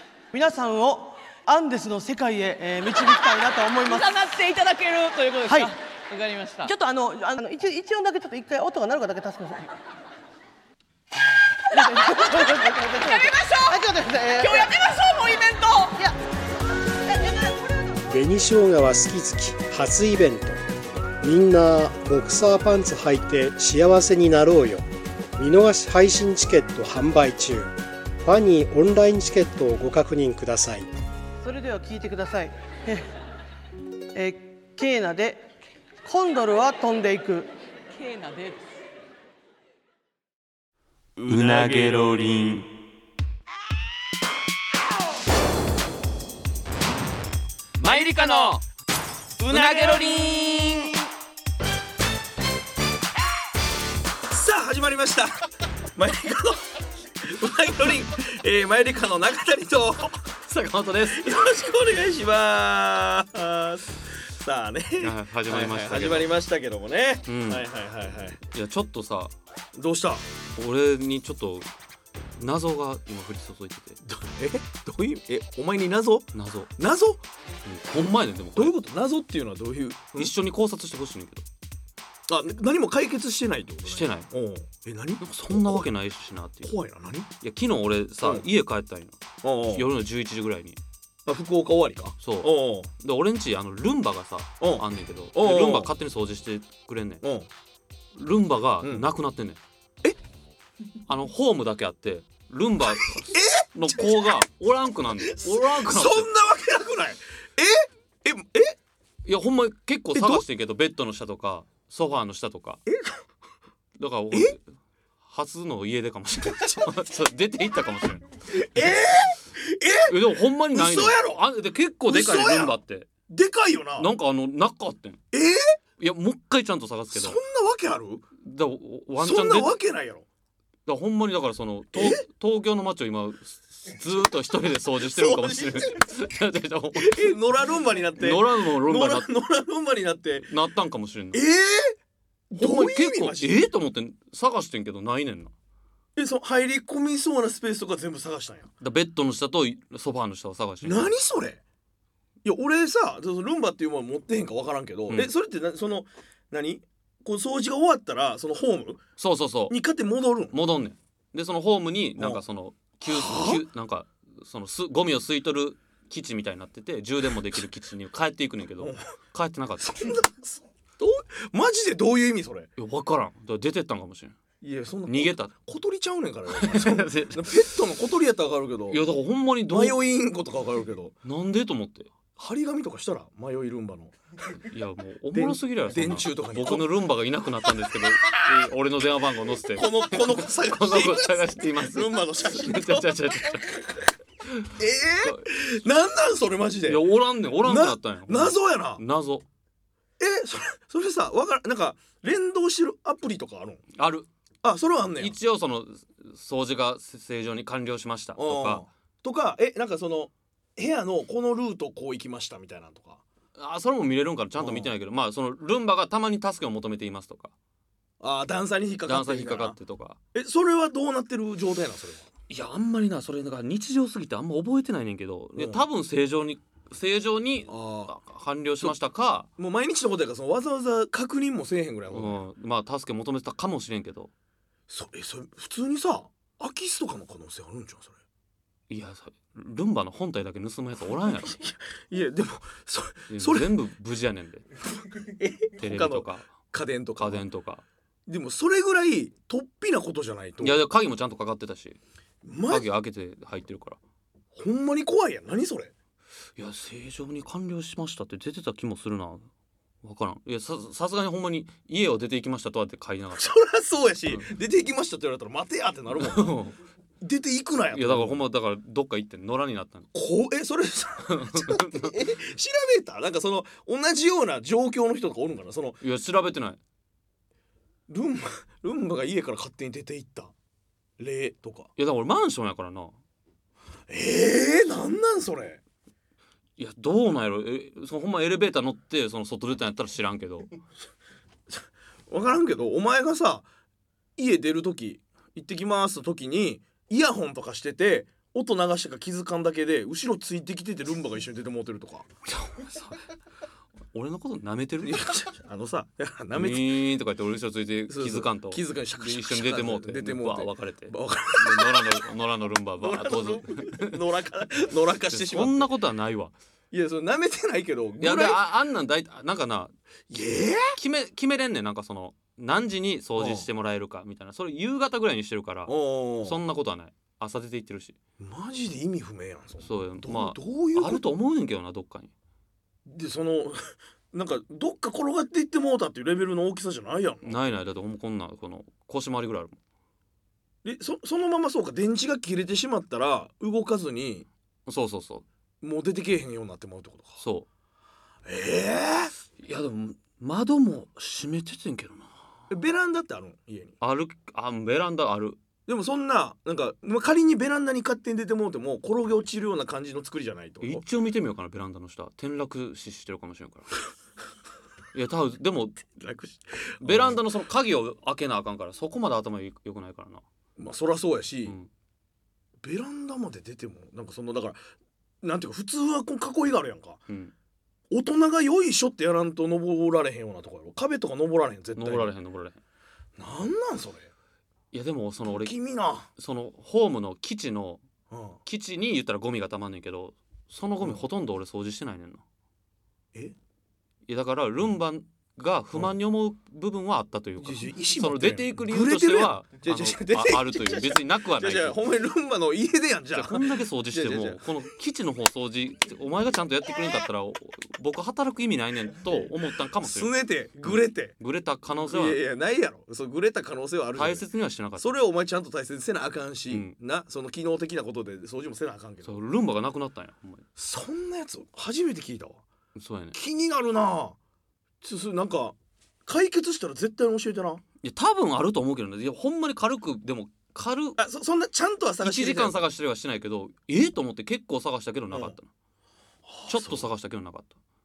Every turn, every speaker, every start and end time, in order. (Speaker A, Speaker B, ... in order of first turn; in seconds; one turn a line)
Speaker A: 0.3-4.3
Speaker B: 4.1-6.7
Speaker A: 5.4-5.7
Speaker A: 6.6-9.7
Speaker A: 11.7-15.0
Speaker B: 13.3-13.6
Speaker B: 14.5-15.9
Speaker A: 15.8-16.2
Speaker A: 17.1-17.6
Speaker C: 18.1-20.6
Speaker C: 21.2-24.9
Speaker C: 25.4-30.9
Speaker A: 31.4-33.1
Speaker A: 34.1-35.5
Speaker A: 36.0-37.5
Speaker B: 37.9-38.6
Speaker D: 41.2-42.0
Speaker E: 41.2-42.7
Speaker E: 47.8-48.6
Speaker E: 49.4-51.0
Speaker D: 49.5-50.2
Speaker D: 54.3-55.3
Speaker D: 56.0-60.4
Speaker E: 60.5-61.3
Speaker D: 61.0-68.4
Speaker E: 65.0-66.3
Speaker E: 67.3-67.7
Speaker E: 68.5-69.3
Speaker D: 69.8-70.2
Speaker E: 70.6-71.7
Speaker E: 72.4-74.0
Speaker D: 74.0-77.2
Speaker E: 76.3-76.7
Speaker E: 77.7-78.8
Speaker D: 78.6-80.3
Speaker E: 80.2-81.5
Speaker D: 82.3-85.9
Speaker E: 83.8-84.3
Speaker E: 85.2-86.8
Speaker D: 86.6-87.3
Speaker E: 87.4-89.2
Speaker D: 89.4-89.9
Speaker E: 89.7-90.8
Speaker D: 91.3-92.9
Speaker E: 92.2-97.2
Speaker D: 94.6-95.9
Speaker D: 97.2-97.5
Speaker E: 98.2-99.6
Speaker D: 98.8-99.1
Speaker E: 101.1-106.3
Speaker D: 103.0-104.3
Speaker D: 105.3-108.8
Speaker E: 109.2-112.8
Speaker D: 110.1-110.5
Speaker D: 112.9-113.2
Speaker E: 114.0-114.7
Speaker D: 114.3-114.6
Speaker E: 115.2-119.0
Speaker D: 116.5-116.9
Speaker D: 118.5-121.4
Speaker E: 120.1-123.1
Speaker D: 122.1-124.1
Speaker E: 124.0-125.2
Speaker D: 125.3-125.6
Speaker E: 126.0-127.4
Speaker D: 127.1-128.3
Speaker E: 128.4-129.7
Speaker D: 129.2-130.3
Speaker E: 130.9-137.4
Speaker D: 131.9-132.2
Speaker D: 135.0-136.0
Speaker D: 137.0-140.5
Speaker E: 138.2-139.3
Speaker E: 140.4-141.5
Speaker D: 141.3-142.0
Speaker D: 142.5-143.7
Speaker E: 142.6-145.5
Speaker D: 146.2-148.7
Speaker E: 148.8-151.1
Speaker D: 150.8-151.6
Speaker D: 152.4-159.0
Speaker E: 159.2-159.8
Speaker D: 159.7-160.6
Speaker E: 160.5-170.2
Speaker D: 162.2-162.4
Speaker D: 163.0-163.7
Speaker D: 169.8-172.7
Speaker E: 172.8-174.4
Speaker D: 174.6-179.0
Speaker E: 175.1-175.5
Speaker E: 176.5-177.8
Speaker E: 178.9-180.0
Speaker D: 179.7-181.2
Speaker E: 181.2-182.1
Speaker D: 182.4-184.6
Speaker E: 184.7-194.7
Speaker D: 185.3-186.9
Speaker D: 189.7-193.4
Speaker D: 194.7-197.0
Speaker E: 196.9-199.4
Speaker D: 197.6-199.0
Speaker D: 200.2-203.8
Speaker E: 204.0-204.3
Speaker D: 204.6-205.4
Speaker E: 205.2-208.8
Speaker D: 208.3-213.2
Speaker E: 213.6-217.5
Speaker D: 214.6-214.9
Speaker D: 218.2-219.8
Speaker E: 219.1-220.2
Speaker D: 220.3-222.3
Speaker E: 222.5-229.5
Speaker D: 225.6-225.8
Speaker D: 227.7-228.2
Speaker D: 229.6-232.4
Speaker E: 232.1-234.3
Speaker D: 234.9-238.2
Speaker E: 238.9-241.6
Speaker D: 241.3-243.8
Speaker E: 243.3-244.7
Speaker D: 245.2-247.4
Speaker E: 245.8-246.5
Speaker E: 247.2-247.8
Speaker D: 248.3-250.8
Speaker E: 250.6-252.0
Speaker D: 252.4-252.9
Speaker E: 252.7-254.0
Speaker D: 254.5-255.9
Speaker E: 256.6-259.5
Speaker E: 260.0-263.5
Speaker D: 263.4-266.6
Speaker E: 266.2-266.8
Speaker D: 267.2-268.4
Speaker E: 267.9-270.1
Speaker D: 270.1-276.0
Speaker E: 271.3-272.3
Speaker E: 276.0-276.8
Speaker D: 278.1-280.5
Speaker D: 281.2-281.9
Speaker E: 282.0-283.1
Speaker D: 284.1-285.8
Speaker E: 286.8-290.8
Speaker D: 291.7-293.7
Speaker D: 294.4-302.3
Speaker E: 302.5-303.2
Speaker E: 304.1-305.3
Speaker D: 305.0-307.0
Speaker E: 306.5-314.2
Speaker D: 308.1-312.3
Speaker D: 313.0-315.9
Speaker E: 315.3-316.5
Speaker D: 316.9-318.6
Speaker E: 318.2-319.9
Speaker D: 320.3-321.0
Speaker E: 320.9-328.2
Speaker D: 323.4-323.7
Speaker D: 325.9-326.6
Speaker D: 328.4-331.2
Speaker E: 329.8-332.3
Speaker D: 333.1-337.6
Speaker E: 337.4-339.8
Speaker D: 340.8-344.5
Speaker E: 344.9-345.4
Speaker D: 345.8-347.4
Speaker E: 347.4-347.7
Speaker D: 348.4-349.3
Speaker E: 349.6-352.3
Speaker D: 352.7-353.9
Speaker E: 354.0-355.6
Speaker D: 355.9-361.0
Speaker E: 360.8-364.0
Speaker E: 365.1-366.0
Speaker D: 366.1-367.4
Speaker E: 367.0-370.4
Speaker D: 370.8-371.8
Speaker D: 372.8-374.8
Speaker D: 375.4-377.2
Speaker D: 378.1-382.3
Speaker E: 381.9-382.8
Speaker D: 383.4-384.3
Speaker E: 384.9-385.8
Speaker D: 385.5-386.3
Speaker E: 386.4-388.0
Speaker D: 388.3-388.6
Speaker E: 388.7-392.4
Speaker E: 394.3-402.0
Speaker D: 397.6-404.7
Speaker E: 403.3-412.4
Speaker D: 410.0-411.4
Speaker D: 412.1-414.4
Speaker E: 414.2-415.1
Speaker D: 415.0-419.3
Speaker E: 416.7-416.9
Speaker E: 419.2-420.6
Speaker D: 420.8-422.6
Speaker E: 423.0-423.4
Speaker D: 423.3-424.4
Speaker D: 425.0-427.8
Speaker E: 428.0-431.2
Speaker D: 431.2-432.8
Speaker E: 432.2-435.7
Speaker D: 435.3-435.6
Speaker D: 436.5-437.1
Speaker E: 436.7-437.8